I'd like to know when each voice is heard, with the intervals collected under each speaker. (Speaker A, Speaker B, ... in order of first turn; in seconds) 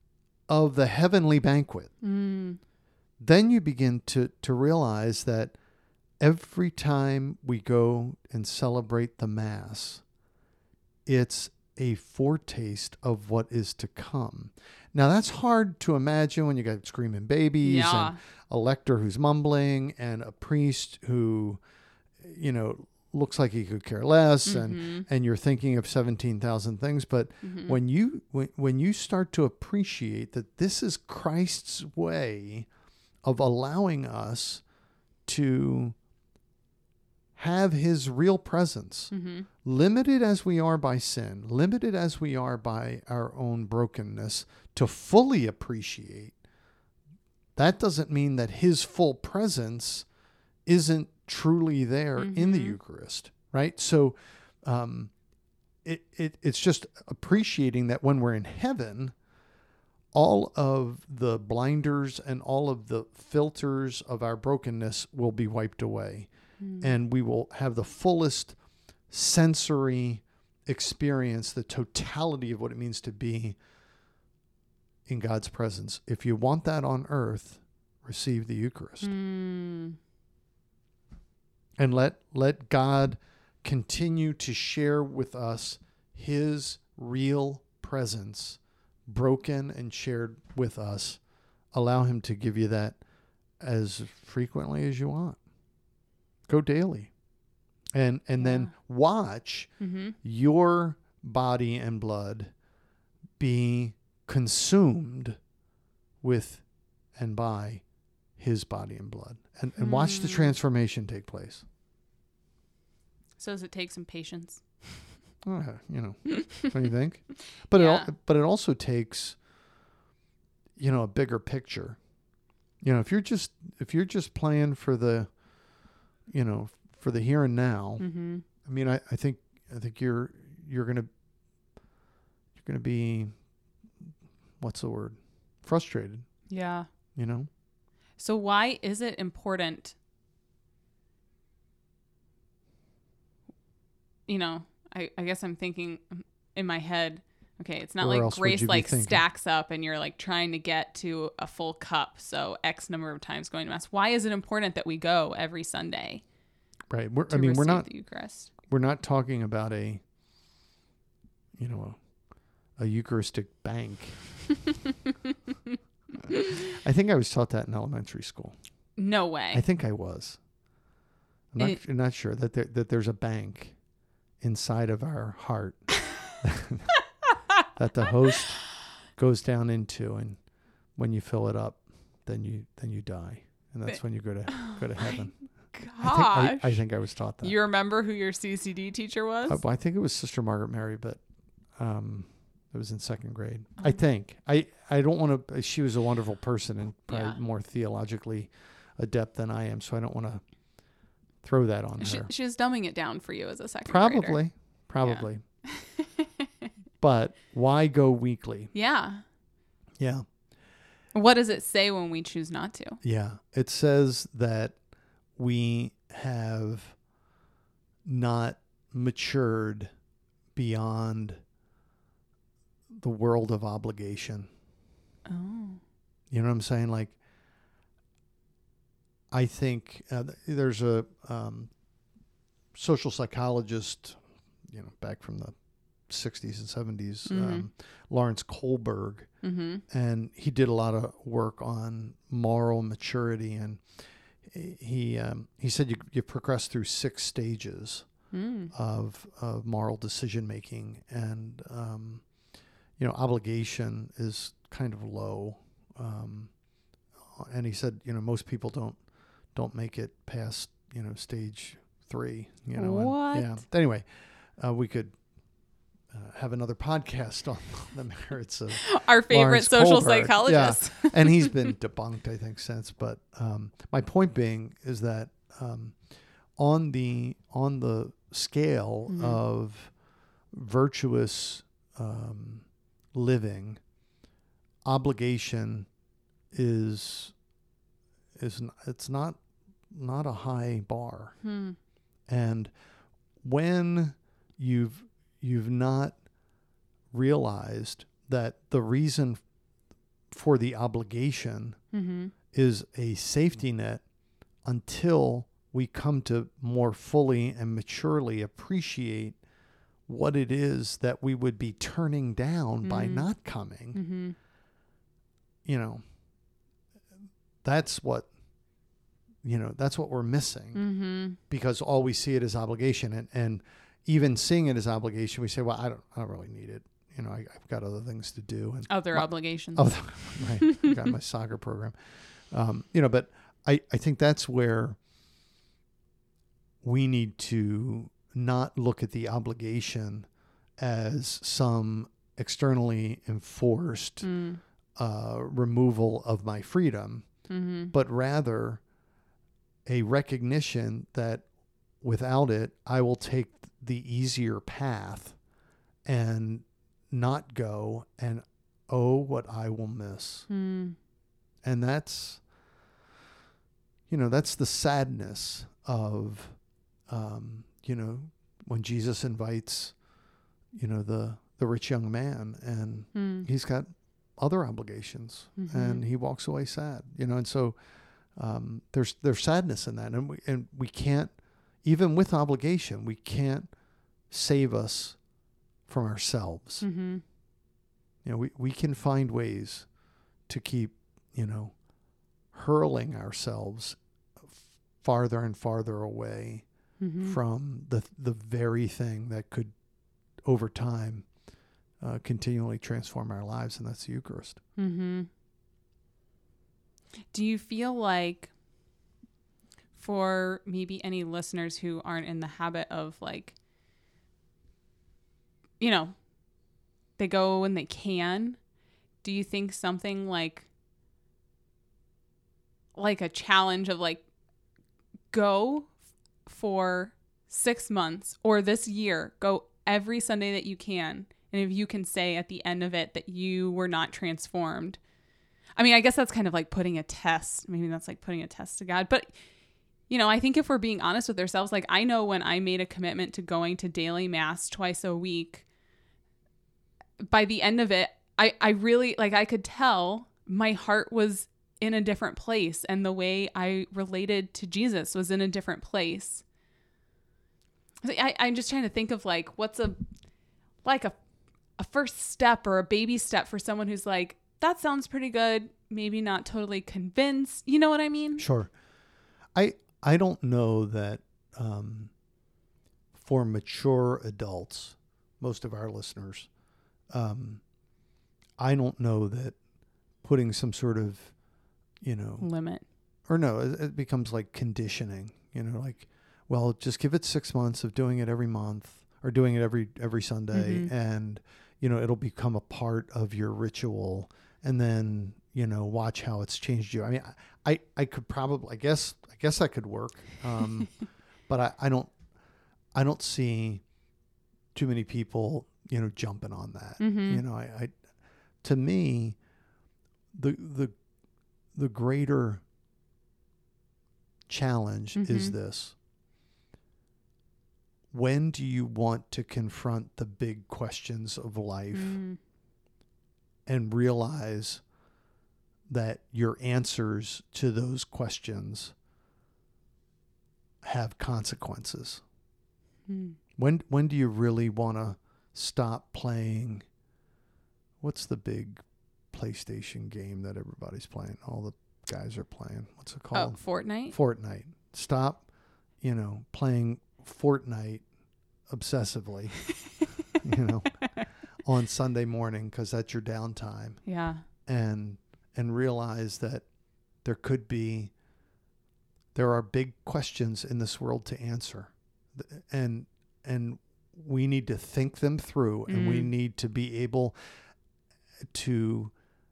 Speaker A: 0.5-1.9, 3.2-5.5, 6.2-10.0, 11.1-21.6, 22.2-32.7, 33.2-34.6, 35.2-36.0, 37.4-39.1, 39.6-46.4, 47.5-50.1, 50.6-55.1, 55.8-59.1, 60.1-68.6, 69.1-73.6, 75.1-79.1, 81.8-91.2, 91.7-93.0, 93.6-95.4, 96.5-97.1, 97.9-99.7, 100.2-102.5, 103.4-105.4, 106.2-106.6, 107.2-107.8, 108.4-111.6, 115.4-119.4, 120.8-122.0, 122.8-125.3, 126.3-128.1, 128.6-131.1, 132.6-133.3, 134.6-136.3, 137.2-137.5, 148.0-149.2, 156.9-157.9, 158.6-160.0, 161.6-162.0, 162.8-164.2, 166.3-168.6, 169.5-170.4, 171.5-173.8, 174.4-176.9, 177.7-180.4, 180.9-185.3, 186.0-187.5, 189.5-191.2, 191.8-200.4, 201.4-202.3, 203.9-205.4, 207.0-208.7, 210.0-210.2, 213.0-214.8, 215.3-217.0, 218.0-219.9, 220.5-221.4, 222.9-224.5, 226.3-227.2, 229.3-231.7, 232.7-235.5, 236.1-239.3, 239.9-243.8, 244.4-248.1, 248.7-252.3, 253.0-256.5, 257.3-265.1, 266.1-276.0, 276.6-279.9, 280.5-283.8, 284.8-285.9, 286.5-287.3, 288.4-289.4, 289.9-291.4, 292.3-292.7, 293.4-296.2, 297.1-299.4, 300.3-301.8, 302.5-304.0, 304.6-309.4, 310.1-314.0, 315.6-316.0, 317.6-318.3, 319.4-320.9, 321.4-331.9, 332.5-335.0, 336.8-340.3, 340.8-344.3, 344.9-347.3, 347.9-348.8, 349.9-351.4, 352.0-355.4, 356.0-360.5, 361.6-362.4, 364.1-370.0, 370.7-377.8, 378.3-383.7, 384.3-385.2, 385.9-386.8, 388.2-389.9, 390.5-391.8, 392.5-396.6, 397.2-399.7, 400.4-401.3, 402.0-404.6, 468.4-468.7, 469.5-472.1, 473.1-476.5, 477.1-477.6, 478.6-479.6, 480.2-481.3, 482.0-482.5, 483.3-500.9, 501.5-502.1, 502.9-503.8, 504.7-507.9, 508.6-509.4, 510.3-510.9, 511.7-512.6, 514.5-515.9, 518.1-522.2, 523.6-524.8, 525.9-528.9, 530.8-532.2, 533.6-536.8, 538.0-545.5, 546.0-548.0, 548.7-549.6, 550.4-551.0, 551.6-554.0, 554.6-556.6, 557.2-558.1, 559.3-567.4, 568.5-569.1
Speaker B: 2.0-2.6, 17.6-18.2, 24.4-25.0, 27.4-27.8, 39.1-39.5, 52.2-52.8, 66.6-66.9, 79.0-80.0, 98.4-98.7, 99.8-100.1, 109.8-110.5, 113.4-115.0, 117.7-118.1, 128.0-128.4, 136.5-136.9, 138.2-139.9, 144.3-156.2, 157.3-158.5, 166.3-166.6, 169.0-169.6, 183.9-186.8, 187.4-189.6, 197.1-197.4, 202.0-204.4, 205.0-206.1, 208.7-209.2, 211.1-213.0, 225.2-225.8, 237.3-237.7, 239.4-239.8, 248.3-248.7, 262.7-263.6, 268.7-271.7, 279.1-279.4, 291.4-291.8, 301.9-302.3, 312.8-313.3, 313.9-314.4, 320.7-321.4, 328.9-330.9, 344.2-344.6, 347.5-347.9, 360.5-361.0, 373.1-373.5, 375.6-376.1, 386.8-387.2, 397.0-397.4, 404.8-405.3, 407.3-408.5, 409.9-413.6, 415.8-416.1, 417.2-418.6, 419.2-420.7, 422.9-424.2, 425.3-425.9, 426.4-435.0, 435.8-439.3, 440.1-445.6, 447.3-456.4, 458.0-460.1, 460.8-461.1, 461.8-468.4, 482.4-482.8, 490.5-490.9, 507.0-507.4, 515.1-515.5, 521.9-522.4, 533.1-533.4, 543.3-544.1, 554.0-554.4, 565.9-566.3